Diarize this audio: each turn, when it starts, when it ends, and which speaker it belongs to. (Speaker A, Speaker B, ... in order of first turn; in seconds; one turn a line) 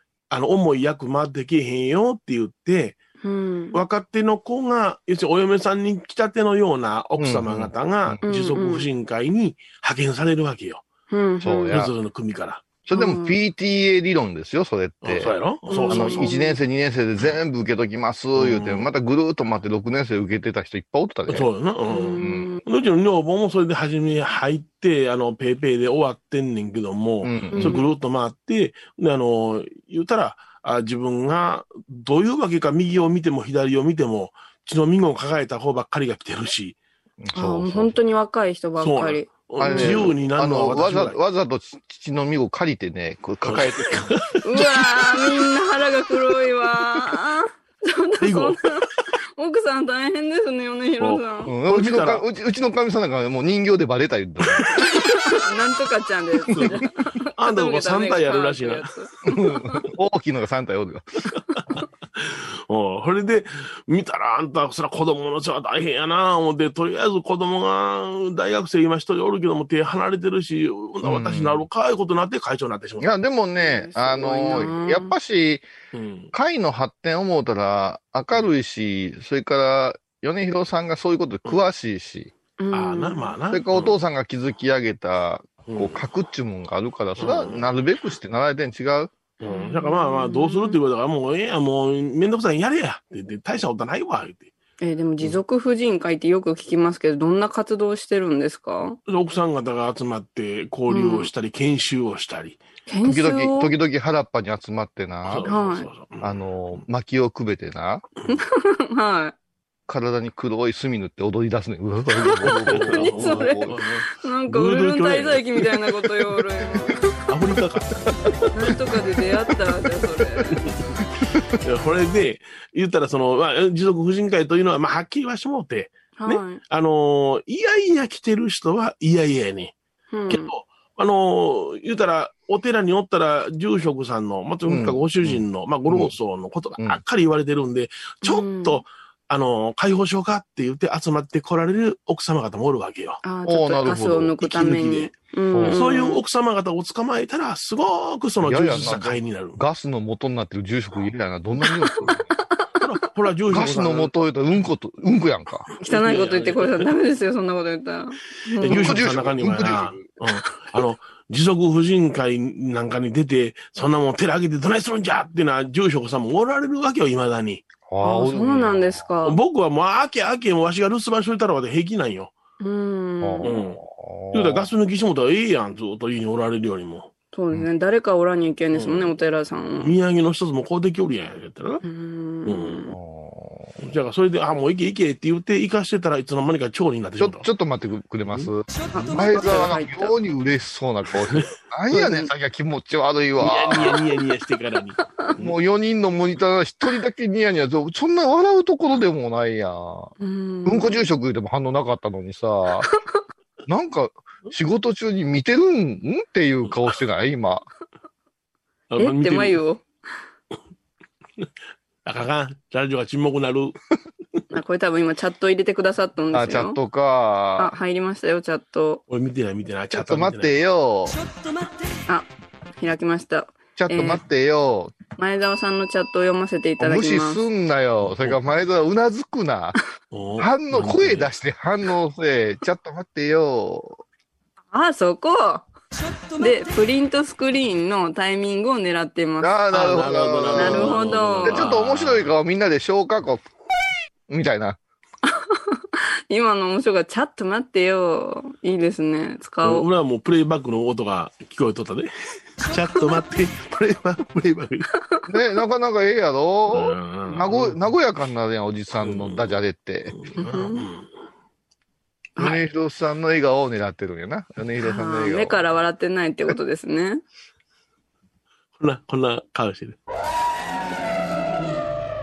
Speaker A: 0.3-3.0
Speaker B: 3.2-3.8
Speaker A: 3.7-10.8
Speaker C: 7.2-8.2
Speaker B: 8.2-8.9
Speaker B: 11.1-11.8
Speaker C: 11.4-11.9
Speaker A: 11.7-12.7
Speaker C: 12.9-15.4
Speaker B: 12.9-13.4
Speaker A: 15.0-16.3
Speaker B: 15.7-16.6
Speaker C: 15.9-21.5
Speaker A: 18.4-18.9
Speaker A: 21.3-36.8
Speaker B: 21.9-22.6
Speaker C: 22.2-22.5
Speaker C: 27.2-27.8
Speaker B: 27.5-27.9
Speaker C: 37.2-38.0
Speaker B: 37.3-40.1
Speaker A: 38.8-41.2
Speaker C: 39.6-44.3
Speaker A: 43.4-44.8
Speaker B: 44.4-48.8
Speaker A: 48.2-48.6
Speaker B: 49.4-51.5
Speaker A: 51.0-52.2
Speaker C: 51.5-54.9
Speaker B: 54.8-59.6
Speaker A: 56.5-56.8
Speaker A: 57.4-58.9
Speaker C: 59.3-61.3
Speaker A: 62.1-73.1
Speaker C: 71.0-71.7
Speaker C: 73.0-75.7
Speaker B: 73.6-75.1
Speaker A: 75.9-76.3
Speaker C: 76.3-82.3
Speaker B: 82.6-83.4
Speaker A: 82.7-84.0
Speaker C: 83.5-89.1
Speaker A: 85.7-86.0
Speaker A: 87.2-87.6
Speaker A: 89.4-94.5
Speaker B: 89.5-90.8
Speaker B: 94.8-99.0
Speaker A: 99.1-102.6
Speaker B: 100.9-101.3
Speaker B: 102.9-103.7
Speaker C: 103.0-105.5
Speaker A: 105.3-106.8
Speaker B: 105.5-105.9
Speaker C: 106.2-108.1
Speaker B: 108.3-109.3
Speaker C: 109.9-113.8
Speaker B: 112.2-117.1
Speaker A: 112.4-116.1
Speaker A: 116.8-118.7
Speaker B: 118.5-120.7
Speaker A: 120.5-120.8
Speaker A: 121.5-129.8
Speaker B: 126.2-126.6
Speaker B: 130.1-130.5
Speaker A: 130.3-143.2
Speaker C: 134.7-136.2
Speaker B: 138.2-138.8
Speaker B: 143.2-146.2
Speaker C: 143.4-144.4
Speaker A: 144.4-149.6
Speaker C: 145.5-145.8
Speaker C: 148.4-152.2
Speaker A: 152.8-154.2
Speaker C: 153.5-155.7
Speaker B: 155.8-159.0
Speaker A: 155.9-156.9
Speaker A: 158.6-167.7
Speaker C: 158.7-160.1
Speaker C: 167.9-169.1
Speaker B: 168.0-169.4
Speaker A: 169.2-172.3
Speaker B: 172.6-173.5
Speaker C: 173.2-174.7
Speaker A: 173.4-173.8
Speaker A: 174.3-177.1
Speaker B: 177.3-180.0
Speaker A: 178.7-179.2
Speaker A: 179.8-181.8
Speaker B: 181.8-182.9
Speaker A: 182.5-182.8
Speaker C: 182.9-183.8
Speaker A: 183.8-187.5
Speaker C: 187.2-194.0
Speaker B: 188.9-190.2
Speaker B: 191.9-192.3
Speaker A: 193.4-195.5
Speaker C: 195.4-200.1
Speaker B: 200.2-201.1
Speaker C: 200.7-202.9
Speaker C: 203.7-207.7
Speaker A: 208.9-209.6
Speaker B: 209.0-209.8
Speaker A: 212.1-213.8
Speaker B: 214.5-216.8
Speaker C: 216.3-217.8
Speaker B: 217.6-219.0
Speaker A: 219.1-220.5
Speaker C: 219.9-221.2
Speaker B: 222.8-224.2
Speaker C: 223.8-224.9
Speaker B: 225.2-227.4
Speaker C: 226.8-229.8
Speaker A: 228.0-228.3
Speaker A: 230.1-231.3
Speaker C: 230.4-234.0
Speaker B: 234.7-235.7
Speaker B: 236.4-240.0
Speaker C: 239.4-243.5
Speaker A: 239.7-242.3
Speaker B: 240.6-241.7
Speaker C: 244.3-244.8
Speaker B: 245.5-245.8
Speaker B: 246.3-249.9
Speaker A: 249.6-254.9
Speaker C: 255.3-260.2
Speaker A: 256.7-257.8
Speaker A: 259.0-259.5
Speaker A: 260.1-261.1
Speaker B: 260.4-260.9
Speaker C: 262.4-265.6
Speaker B: 264.8-267.2
Speaker A: 268.8-270.0